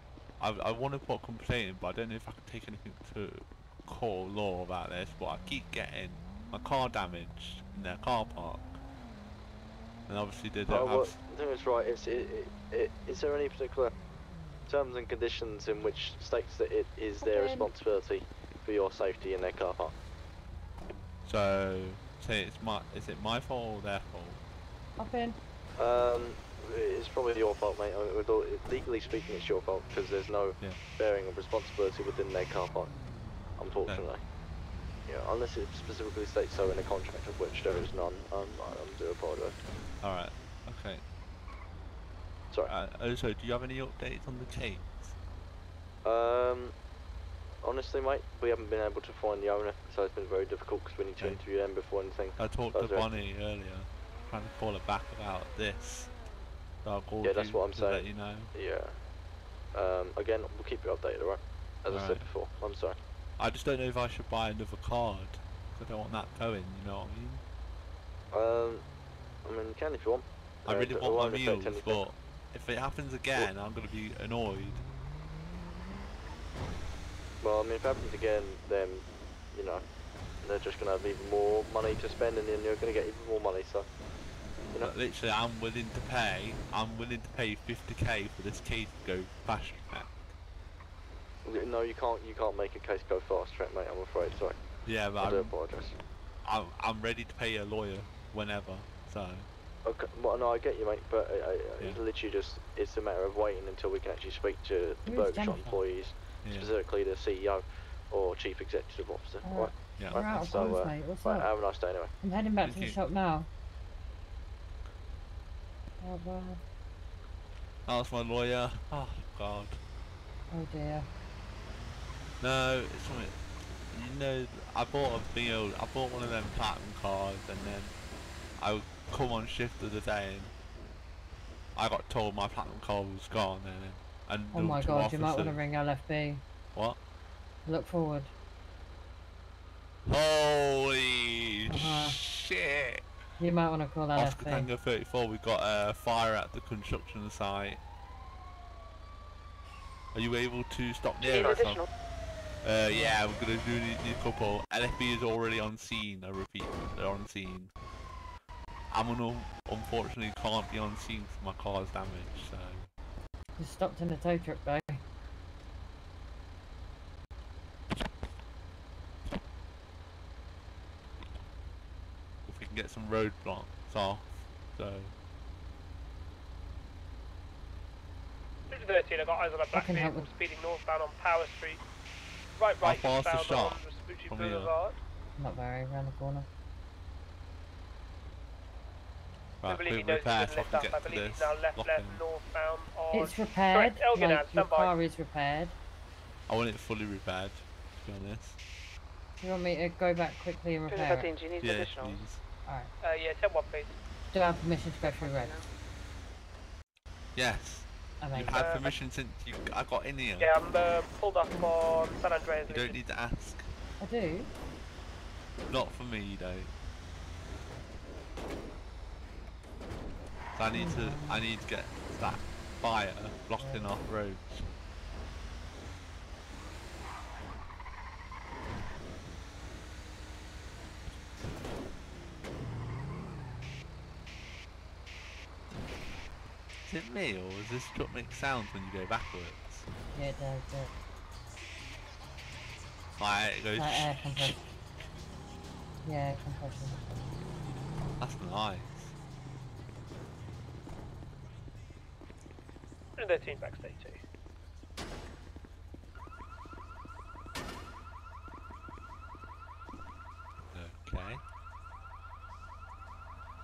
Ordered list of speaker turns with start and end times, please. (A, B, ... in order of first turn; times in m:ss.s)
0:00.4-0:08.8 A
0:10.1-0:11.2 A
0:10.7-0:14.0 B
0:14.7-0:20.0 B
0:17.2-0:17.7 C
0:21.2-0:24.4 A
0:25.0-0:25.4 C
0:25.8-0:32.9 B
0:33.6-0:34.2 B
0:35.1-0:39.6 B
0:40.0-0:41.0 A
0:42.7-0:45.2 A
0:46.0-0:46.8 B
0:47.6-0:53.2 B
0:52.4-0:56.1 A
0:56.8-0:58.5 A
0:57.2-0:59.0 B
0:59.7-1:03.0 B
1:01.9-1:02.3 A
1:03.4-1:07.4 A
1:08.3-1:08.8 B
1:09.4-1:12.0 B
1:10.7-1:14.8 A
1:17.4-1:19.8 B
1:20.4-1:23.9 B
1:24.8-1:30.3 A
1:31.4-1:34.6 B
1:34.8-1:35.5 A
1:35.1-1:36.0 B
1:36.4-1:39.5 A
1:39.8-1:52.1 B
1:45.1-1:45.7 C
1:46.4-1:46.7 A
1:49.4-1:51.5 C
1:50.0-1:50.8 A
1:52.2-1:53.5 C
1:52.6-1:53.0 A
1:56.0-1:56.6 C
1:57.9-1:59.8 A
2:00.5-2:01.1 C
2:02.4-2:07.9 A
2:08.6-2:10.5 A
2:11.8-2:15.7 A
2:14.5-2:16.4 C
2:17.7-2:18.3 C
2:20.1-2:23.0 A
2:21.7-2:22.2 C
2:23.4-2:24.7 C
2:24.1-2:27.8 A
2:30.1-2:31.9 A
2:31.2-2:31.9 D
2:32.6-2:37.7 A
2:38.9-2:42.9 A
2:43.6-2:45.0 C
2:52.5-2:55.1 A
2:58.7-3:01.8 E
2:59.7-3:00.3 C
3:02.6-3:05.0 E
3:02.8-3:04.7 A
3:05.4-3:06.5 C
3:09.6-3:12.2 A
3:09.6-3:14.9 E
3:13.1-3:15.8 C
3:16.5-3:18.6 A
3:19.4-3:21.4 C
3:20.9-3:22.2 D
3:21.6-3:22.4 A
3:22.6-3:22.9 C
3:23.0-3:24.0 E
3:24.3-3:25.6 C
3:25.0-3:25.6 D
3:27.4-3:30.5 A
3:28.2-3:28.6 C
3:28.5-3:28.9 E
3:30.4-3:33.0 E
3:32.7-3:33.7 A
3:34.0-3:34.5 C
3:35.7-3:36.7 A
3:40.6-3:44.7 A
3:40.7-3:41.4 C
3:43.5-3:44.0 C
3:56.9-3:59.9 A
4:00.1-4:00.9 C
4:03.2-4:04.6 A
4:03.8-4:04.6 C
4:06.0-4:07.0 C
4:08.2-4:09.2 A
4:13.2-4:14.2 E
4:20.7-4:21.4 A